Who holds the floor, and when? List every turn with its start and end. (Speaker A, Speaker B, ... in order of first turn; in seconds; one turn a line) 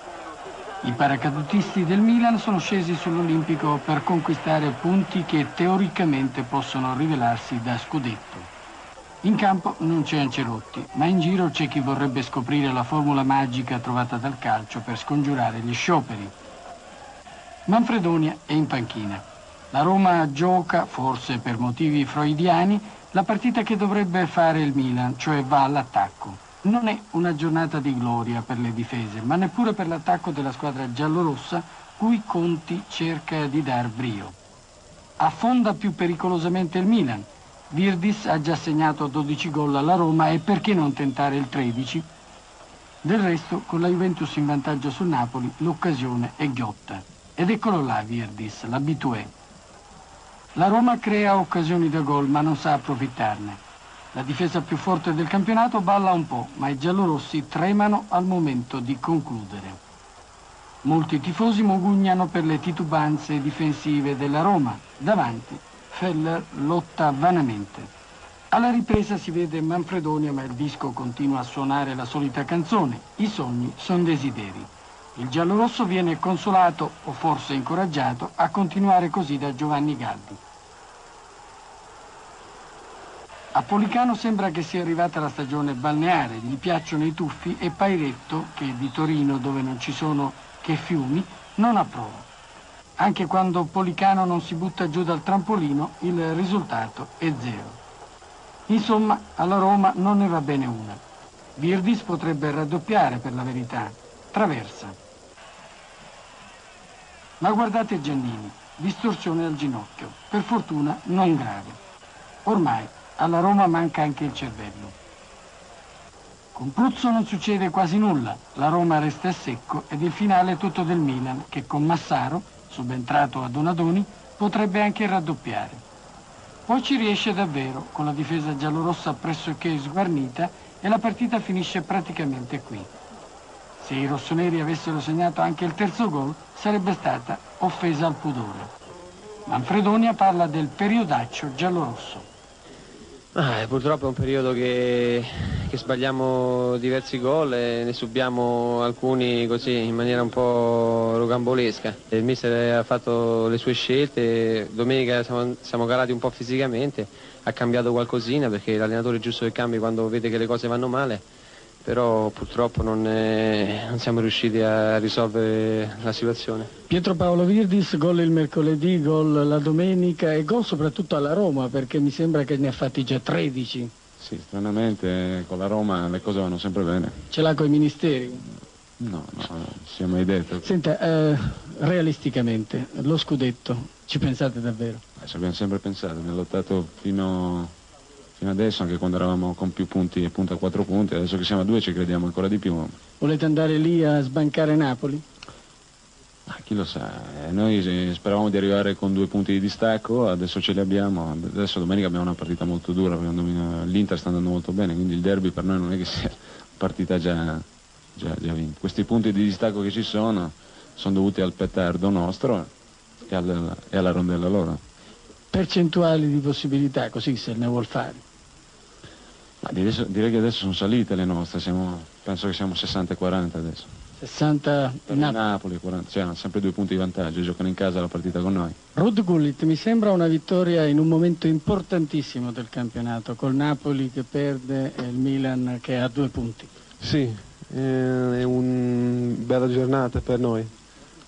Speaker A: 0.8-8.5
Speaker A: 9.2-16.3
Speaker A: 17.6-34.4
Speaker A: 35.2-42.0
Speaker A: 43.0-49.3
Speaker A: 50.5-53.6
Speaker A: 54.1-59.8
Speaker A: 60.8-67.9
Speaker A: 68.5-80.4
Speaker A: 83.5-92.3
Speaker A: 93.0-97.8
Speaker A: 98.7-101.0
Speaker A: 101.6-104.9
Speaker A: 107.4-111.8
Speaker A: 112.4-114.9
Speaker A: 116.5-125.8
Speaker A: 126.7-132.9
Speaker A: 133.8-138.7
Speaker A: 139.4-142.2
Speaker B: 143.3-161.2
Speaker B: 161.8-166.7
Speaker A: 166.9-173.9
Speaker C: 174.2-177.3
Speaker A: 177.3-178.5
Speaker C: 179.0-180.7
Speaker A: 180.6-185.0
Speaker C: 185.2-187.7
Speaker C: 188.4-192.9
Speaker A: 193.2-195.2
Speaker C: 196.5-207.6
Speaker C: 208.2-212.7
Speaker C: 213.3-214.8
Speaker A: 215.5-218.2
Speaker C: 219.6-223.9
Speaker A: 224.2-225.4
Speaker C: 225.1-228.8
Speaker A: 228.9-236.7
Speaker D: 237.0-240.7